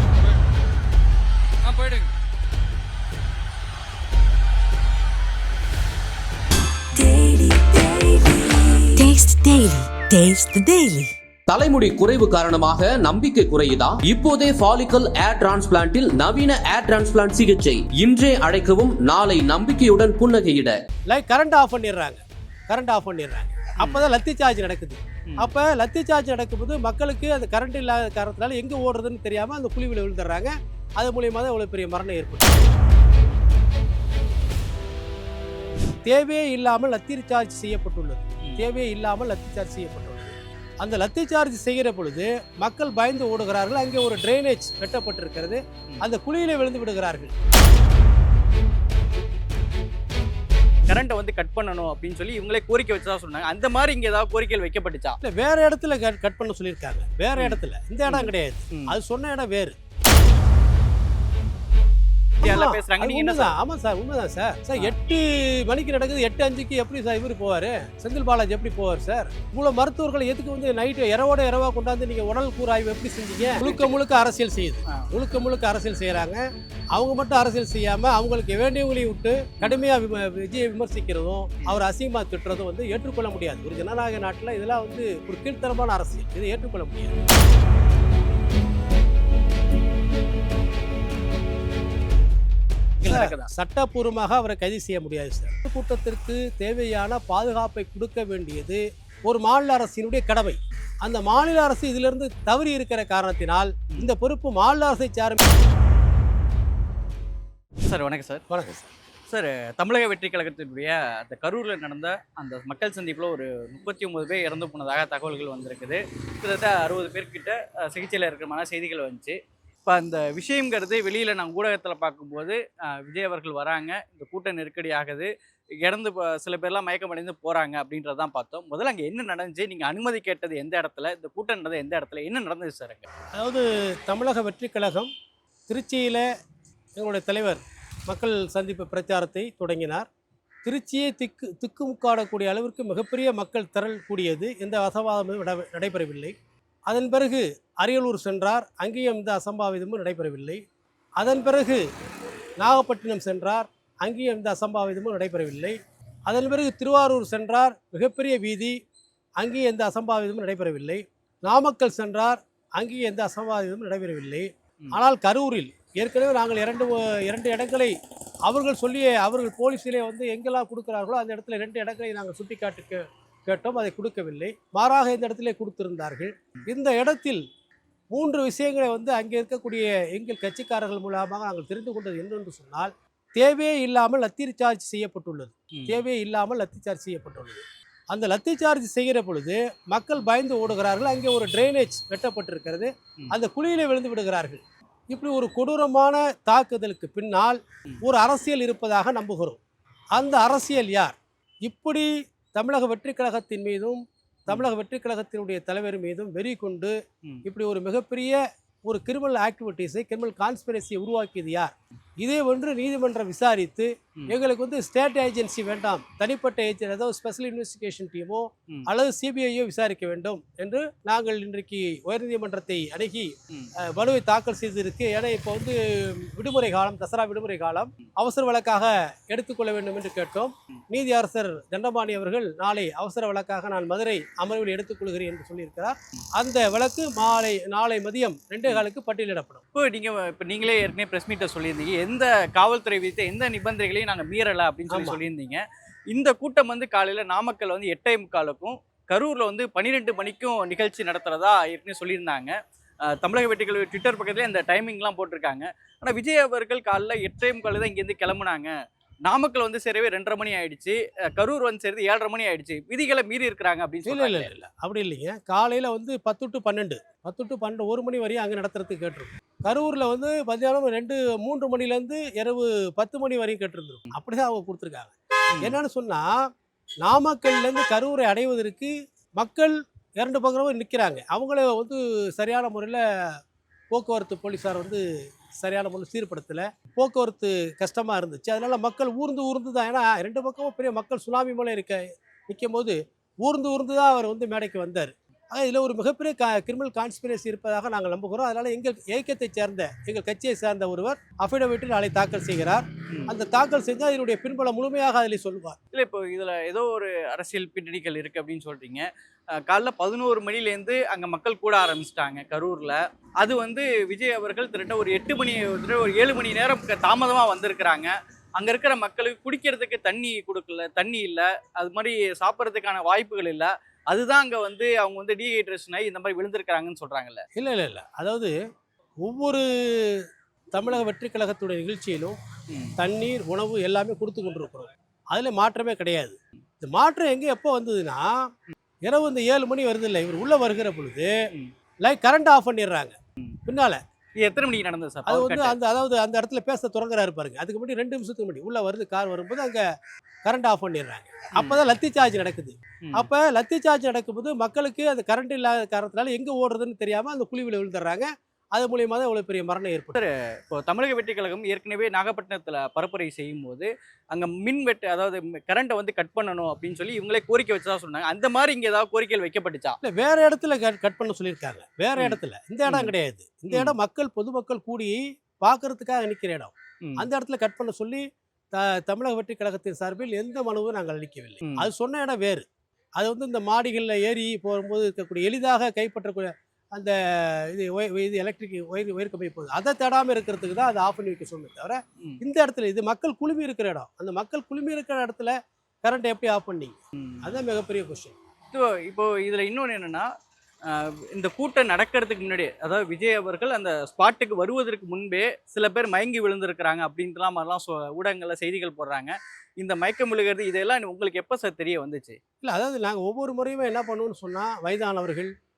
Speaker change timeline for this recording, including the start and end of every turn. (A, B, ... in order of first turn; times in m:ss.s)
0:01.7-0:02.0 A
0:07.0-0:11.1 B
0:11.5-0:20.8 C
0:21.1-0:32.7 D
0:36.0-0:47.3 D
0:50.9-0:55.2 A
0:55.2-0:59.7 D
0:57.4-0:58.9 A
1:02.4-1:16.4 D
1:02.4-1:03.5 A
1:13.6-1:13.9 A
1:16.9-1:27.2 D
1:33.0-1:33.5 A
1:33.0-1:45.4 D
1:47.8-1:48.4 A
1:48.5-1:48.9 D
1:49.3-2:05.3 A
2:05.8-2:13.1 A
2:13.3-2:15.1 D
2:15.7-2:16.2 D
2:17.0-2:20.1 D
2:20.6-2:26.3 D
2:26.9-2:30.6 D
2:31.2-2:31.8 D
2:32.6-2:35.8 D
2:36.3-2:38.8 D
2:39.4-2:47.9 D
2:48.5-2:57.4 D
2:58.1-3:19.6 D
3:05.8-3:06.0 A
3:20.2-3:26.9 D
3:27.4-3:59.6 D
3:59.8-4:12.6 A
4:04.9-4:05.2 D
4:13.1-4:18.7 A
4:19.2-4:24.5 A
4:24.0-4:36.3 D
4:37.0-4:43.0 D
4:43.9-4:45.0 D
4:45.6-5:05.8 D
5:05.9-5:09.1 A
5:09.6-5:27.4 A
5:27.6-5:28.5 D
5:29.2-5:30.2 D
5:30.7-5:32.4 D
5:33.0-5:38.3 D
5:39.1-5:41.3 D
5:42.0-5:44.0 D
5:44.4-5:45.8 A
5:45.2-5:49.8 D
5:50.4-6:00.2 D
6:00.1-6:10.0 A
6:10.0-6:18.2 D
6:12.2-6:13.1 A
6:18.7-6:22.6 D
6:23.2-6:38.3 D
6:38.7-6:40.2 A
6:40.9-6:52.4 A
6:52.6-6:55.5 D